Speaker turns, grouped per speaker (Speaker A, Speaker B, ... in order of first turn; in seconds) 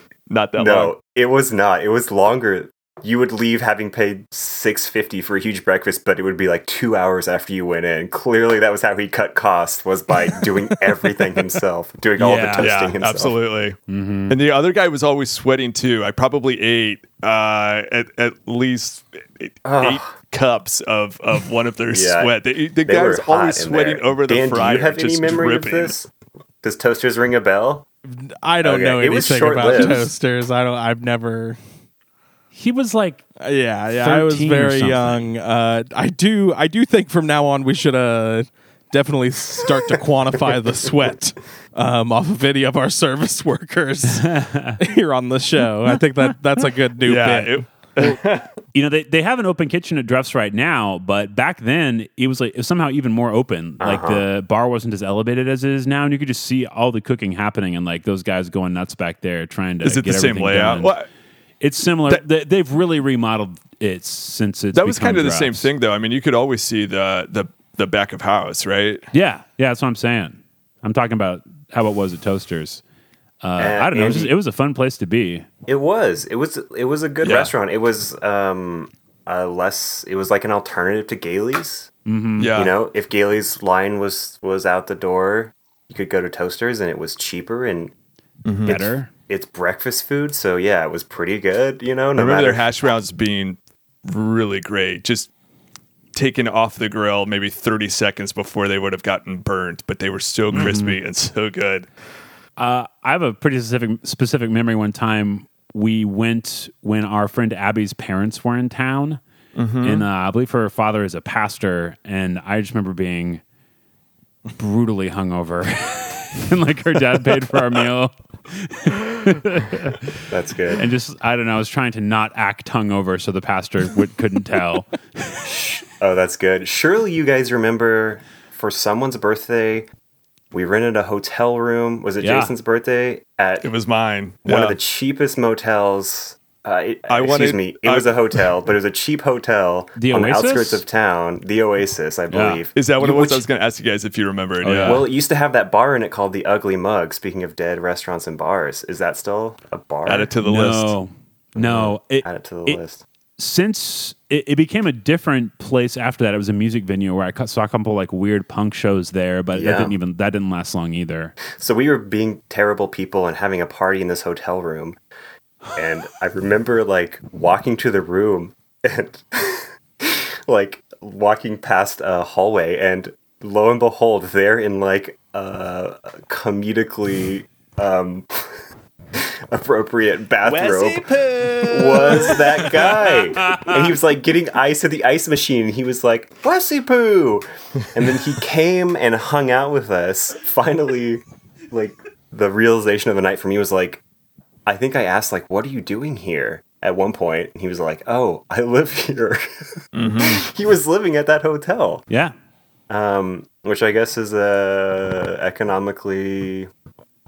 Speaker A: 0.3-0.9, 12.6-13.8, 14.3-25.9, 47.0-48.5, 59.8-61.1, 64.7-69.1, 77.2-77.5, 82.4-82.7, 88.5-88.8, 92.2-95.3, 96.1-101.9, 109.5-110.0, 133.6-134.8, 137.1-138.4, 142.8-145.1, 150.1-150.9, 199.9-200.4
Speaker B: 0.6-13.4, 19.6-20.1, 21.9-22.3, 22.9-26.1, 26.6-27.9, 28.6-30.1, 53.8-54.3, 73.6-74.3, 75.7-81.9, 82.5-87.9, 88.7-92.7, 120.3-120.8, 125.4-129.9, 130.5-133.7, 134.4-143.5, 144.8-150.3, 151.6-153.0, 159.5-160.0, 161.5-165.0, 165.8-178.3, 179.2-194.0, 194.7-199.4, 200.0-202.0, 202.9-206.7
Speaker C: 12.2-12.8, 13.9-14.4, 32.5-33.2, 34.0-35.3, 44.1-44.8, 48.7-60.9, 61.6-65.7, 69.1-72.8, 73.4-75.5, 82.1-82.5, 88.6-89.1, 100.5-101.0, 102.6-109.2, 109.8-113.4, 114.6-120.1, 120.8-124.9, 132.2-132.5, 140.0-140.8, 142.3-142.6, 144.6-145.1, 150.4-152.8, 153.4-161.3, 182.7-183.9
Speaker D: 28.1-31.6, 33.4-47.6, 180.4-182.5